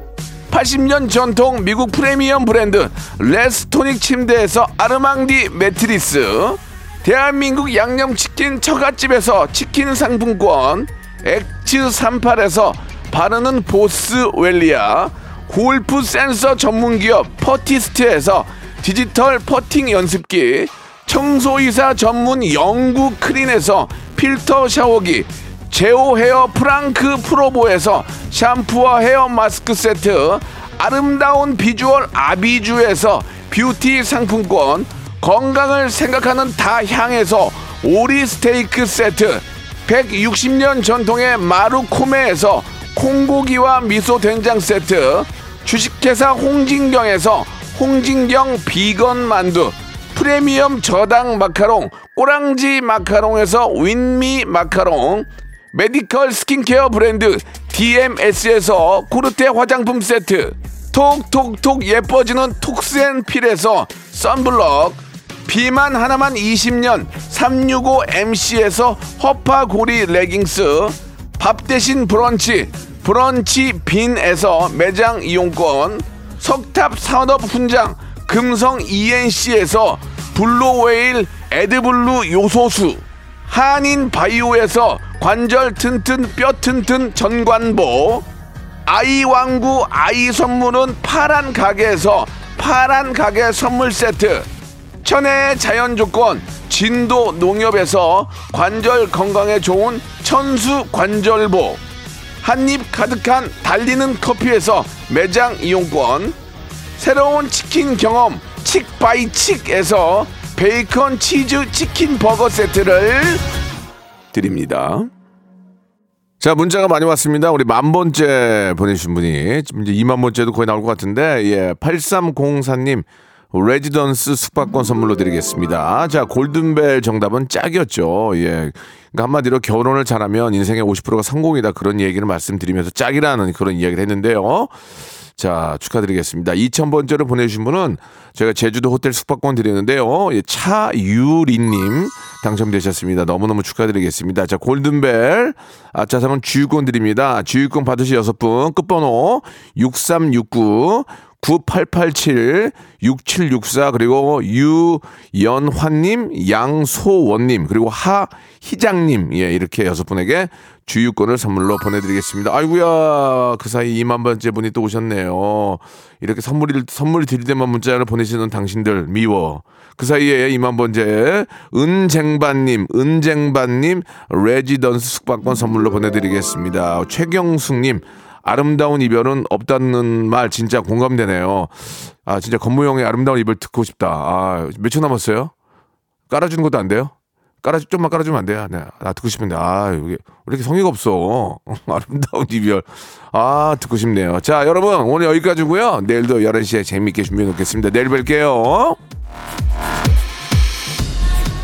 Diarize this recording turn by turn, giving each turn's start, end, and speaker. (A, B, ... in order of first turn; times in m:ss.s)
0:00.5-1:28.2 A
1:28.8-1:34.5 A
1:35.0-1:41.8 A
1:42.4-1:46.3 A
1:47.0-1:53.5 A
1:54.3-1:55.1 A
1:56.4-2:14.7 A
2:15.4-3:05.5 A
3:06.3-3:19.0 A